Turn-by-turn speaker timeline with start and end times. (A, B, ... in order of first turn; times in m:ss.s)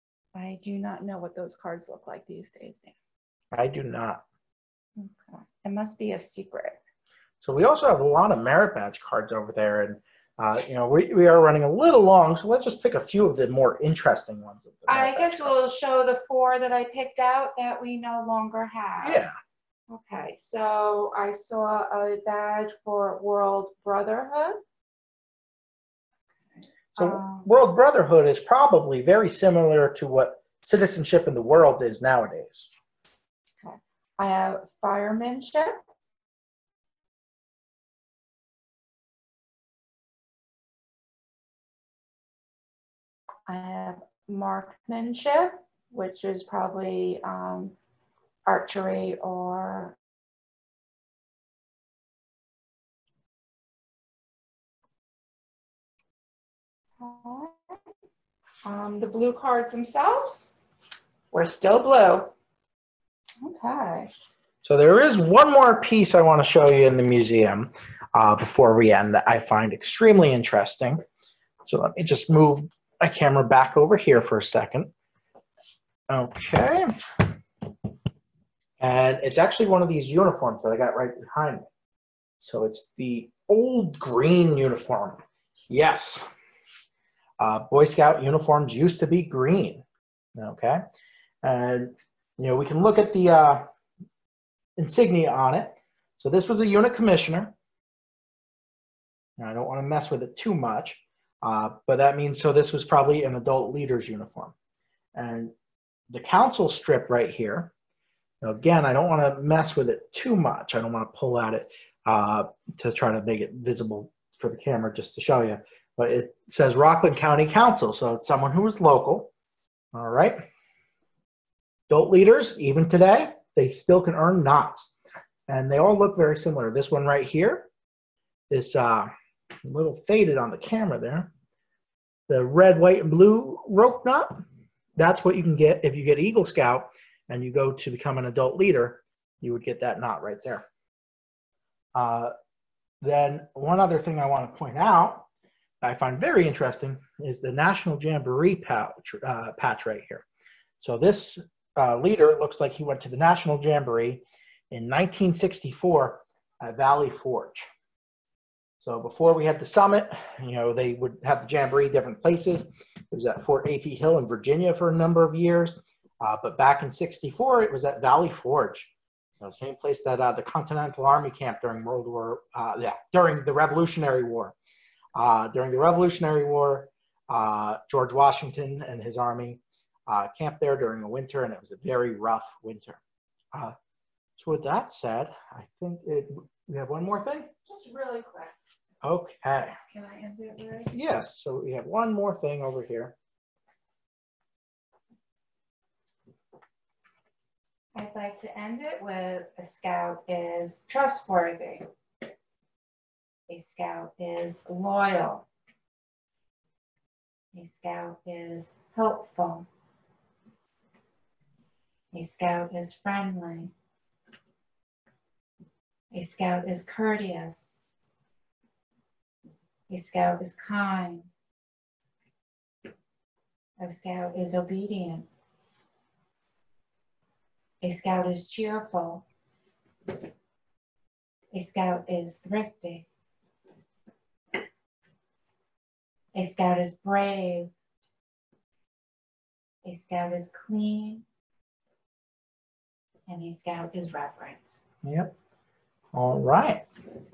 0:00.4-0:03.0 A
0:03.5-0:04.2 B
0:05.0-0:06.8 A
0:07.4-0:15.5 B
0:14.9-0:19.3 A
0:19.0-0:19.3 B
0:19.9-0:24.6 A
0:26.6-0:27.5 A
0:27.0-0:32.7 B
0:33.6-0:35.8 A
0:43.5-0:47.8 A
0:48.4-0:50.0 A
0:57.0-0:57.6 A
0:58.6-1:00.5 A
1:01.3-1:02.3 A
1:03.4-1:04.1 A
1:04.6-1:11.0 B
1:11.7-1:14.9 B
1:16.1-1:17.3 B
1:18.8-1:21.7 B
1:22.4-1:26.2 B
1:27.4-1:29.8 B
1:30.4-1:30.8 B
1:31.4-1:33.6 B
1:34.8-1:37.5 B
1:39.4-1:44.5 B
1:45.2-1:45.5 B
1:46.1-1:47.7 B
1:48.4-1:59.3 B
1:59.9-2:00.4 B
2:01.9-2:04.9 B
2:05.5-2:07.7 B
2:08.5-2:09.1 B
2:09.6-2:11.3 B
2:12.3-2:14.4 B
2:15.0-2:20.7 B
2:22.0-2:22.3 B
2:23.0-2:25.3 B
2:25.8-2:30.2 B
2:30.8-2:37.7 B
2:38.8-2:48.9 B
2:49.4-2:54.6 B
2:55.2-3:03.0 B
3:04.4-3:07.5 B
3:07.6-3:08.6 A
3:09.0-3:09.8 B
3:09.9-3:10.9 A
3:10.9-3:13.2 B
3:18.0-3:21.9 A
3:23.5-3:25.5 A
3:27.5-3:29.7 A
3:32.1-3:33.7 A
3:36.1-3:37.8 A
3:39.9-3:41.3 A
3:43.8-3:45.3 A
3:47.8-3:49.2 A
3:51.5-3:53.1 A
3:56.3-3:57.7 A
3:59.8-4:01.2 A
4:03.3-4:04.8 A
4:05.0-4:05.3 B
4:06.1-4:06.8 B